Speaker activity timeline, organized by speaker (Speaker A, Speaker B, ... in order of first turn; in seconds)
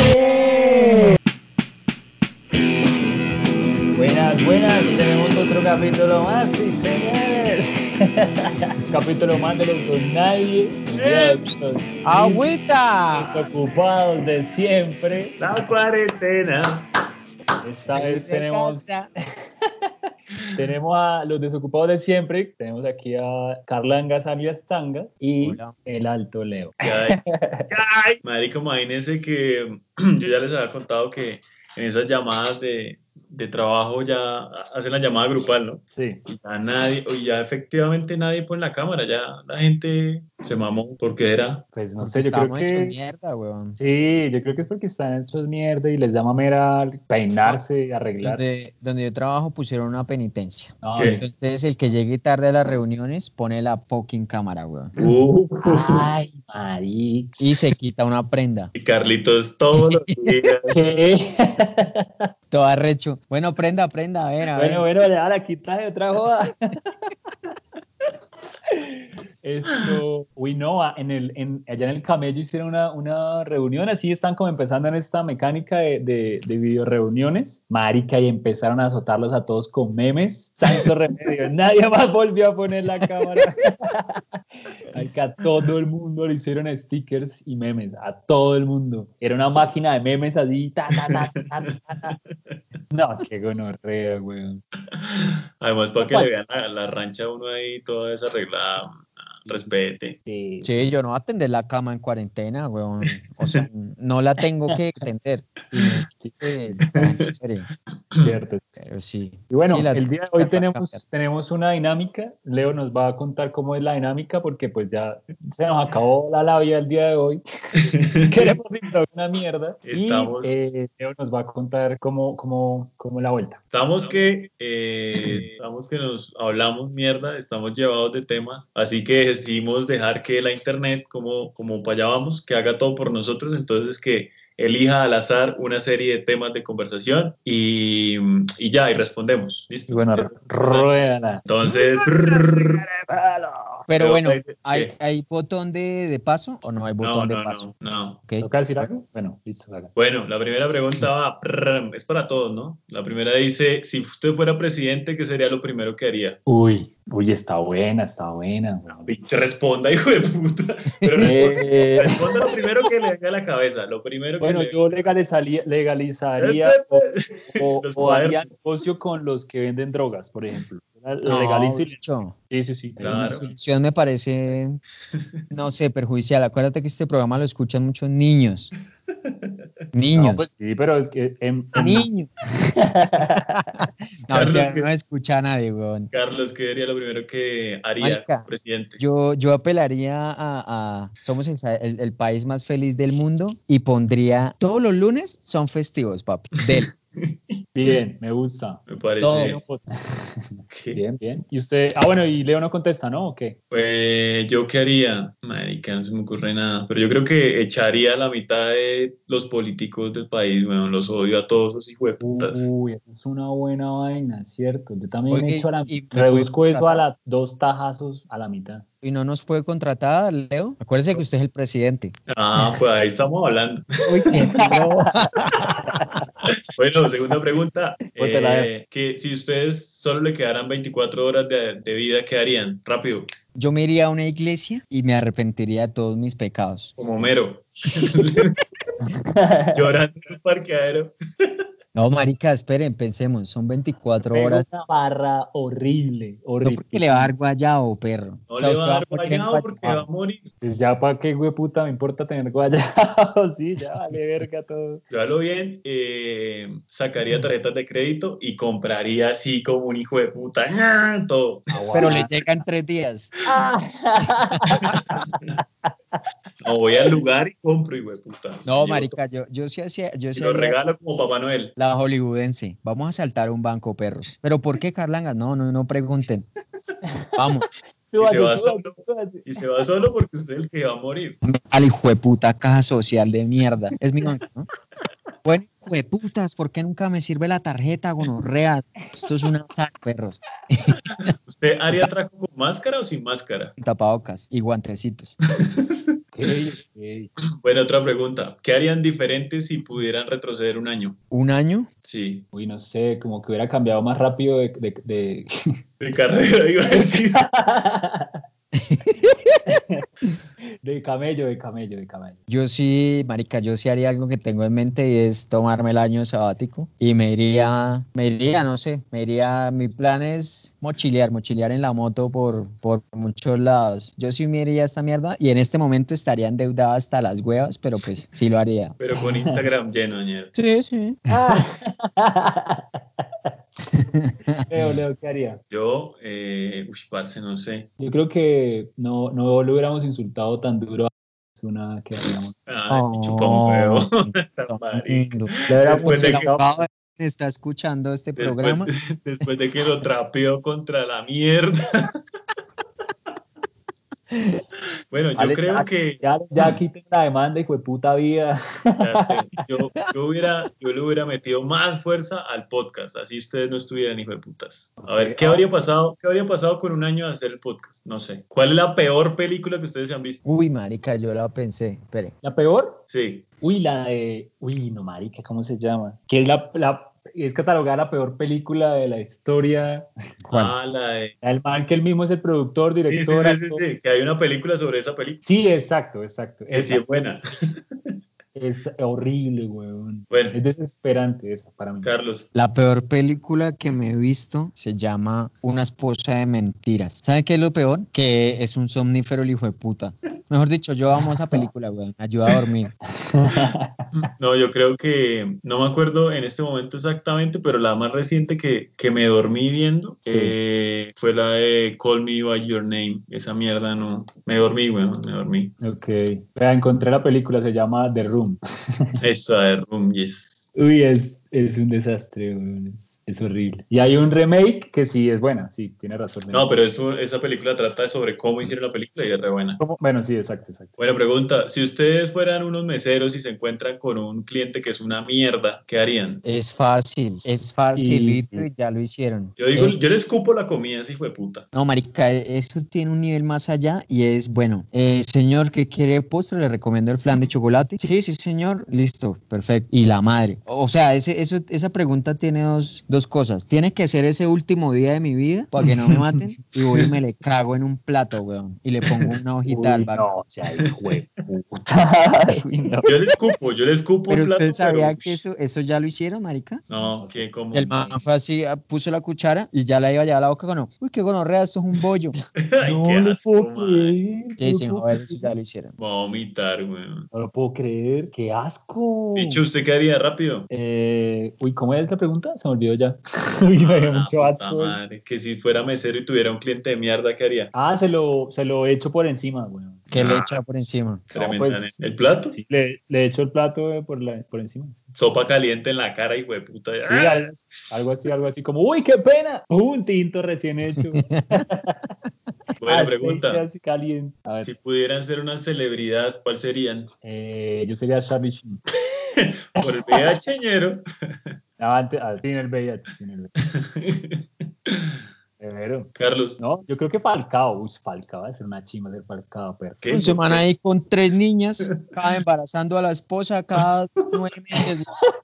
Speaker A: 0.2-1.0, 3.9-12.5, 13.2-15.4, 17.6-18.9, 20.6-27.6, 36.0-36.2, 41.7-43.0, 43.8-48.5, 50.8-51.3, 55.6-57.5, 60.7-62.0, 64.6-66.5, 68.7-84.2, 84.9-92.2, 92.9-94.6, 96.0-96.3, 99.5-99.7, 100.3-100.9, 106.2-106.9, 108.2-108.6, 109.5-117.4, 118.3-123.6, 139.9-143.9, 148.4-149.9, 156.5-159.1, 161.2-162.2, 164.4-173.5, 180.2-182.1, 182.9-183.4, 197.8-203.6, 212.2-218.8, 224.1-226.3, 228.1-228.7, 239.1-239.8, 244.3-247.3, 250.6-255.0, 261.7-262.3, 263.5-266.2, 277.0-277.4, 278.1-279.6, 296.4-297.3, 302.5-305.5, 306.9-308.4, 309.7-310.0, 310.8-312.4, 329.4-329.6, 331.3-332.8, 334.7-335.6, 338.0-342.6, 345.7-346.9, 355.4-359.3, 365.0-365.7, 372.4-373.0, 373.6-380.1, 381.4-383.8, 385.4-387.0, 388.5-392.1, 401.2-401.6, 403.3-404.1, 410.3-410.6, 415.8-418.6, 420.8-426.7, 429.8-431.0, 437.9-438.7, 459.7-463.2, 466.9-468.2, 472.8-475.5, 477.3-479.6, 480.7-485.0, 487.7-490.1, 491.3-491.9, 492.5-495.1, 497.1-502.1, 502.9-504.7, 507.2-508.8, 509.8-510.3, 511.8-513.5, 515.6-520.2
Speaker B: 10.9-11.4, 15.4-16.8, 26.8-41.6, 51.0-51.2, 55.0-56.1, 58.8-60.8, 69.8-70.0, 91.0-91.5, 95.0-100.2, 103.1-103.6, 106.9-107.2, 117.8-118.5, 119.8-120.7, 123.7-140.9, 141.4-142.8, 144.0-144.9, 147.0-148.2, 149.9-156.4, 158.9-165.1, 166.4-168.5, 173.0-173.5, 184.3-184.9, 186.1-189.0, 196.8-197.3, 198.9-199.6, 200.7-201.0, 203.7-212.7, 222.3-224.6, 226.8-233.3, 237.0-238.6, 239.7-241.1, 248.5-250.5, 255.1-262.3, 264.9-265.5, 266.6-269.2, 270.4-271.8, 278.2-281.4, 291.5-293.7, 297.6-301.2, 302.1-302.5, 306.0-307.4, 329.0-330.6, 335.7-337.9, 342.6-346.5, 348.4-351.8, 355.1-356.2, 359.0-370.4, 373.1-373.5, 380.5-381.4, 383.1-385.4, 386.7-387.4, 390.3-390.6, 392.0-392.5, 404.2-415.8, 419.2-420.7, 426.5-429.8, 431.0-436.4, 439.6-441.7, 463.1-465.4, 466.9-467.9, 472.6-474.2, 476.0-477.3, 479.4-480.7, 483.8-487.7, 490.1-492.6, 495.1-497.5, 502.8-503.6, 504.6-507.1, 509.4-511.0, 513.9-515.2, 516.1-516.6, 520.0-520.6
Speaker C: 12.1-13.5, 17.9-19.1, 25.4-25.8, 42.0-43.8, 48.2-54.9, 57.4-58.7, 59.7-60.4, 62.5-64.8, 100.6-107.7, 108.8-111.0, 143.9-147.7, 161.0-162.0, 171.2-172.3, 173.1-174.8, 175.5-178.7, 179.9-180.5, 181.8-182.3, 183.4-186.1, 188.0-196.9, 199.2-199.6, 215.3-217.1, 219.0-222.1, 224.2-225.8, 233.6-237.0, 241.9-244.7, 246.6-250.1, 261.9-263.3, 264.5-264.9, 268.7-270.8, 271.8-276.4, 277.4-277.7, 281.4-284.7, 285.4-291.3, 293.8-295.4, 301.3-301.9, 308.7-309.6, 312.5-329.0, 330.6-331.2, 334.1-335.0, 342.9-348.9, 370.4-372.3, 380.5-380.8, 392.5-402.9, 436.4-440.0, 441.7-460.2, 464.3-466.8, 467.7-472.4, 474.6-475.9, 490.1-491.2, 501.1-501.6, 520.1-525.1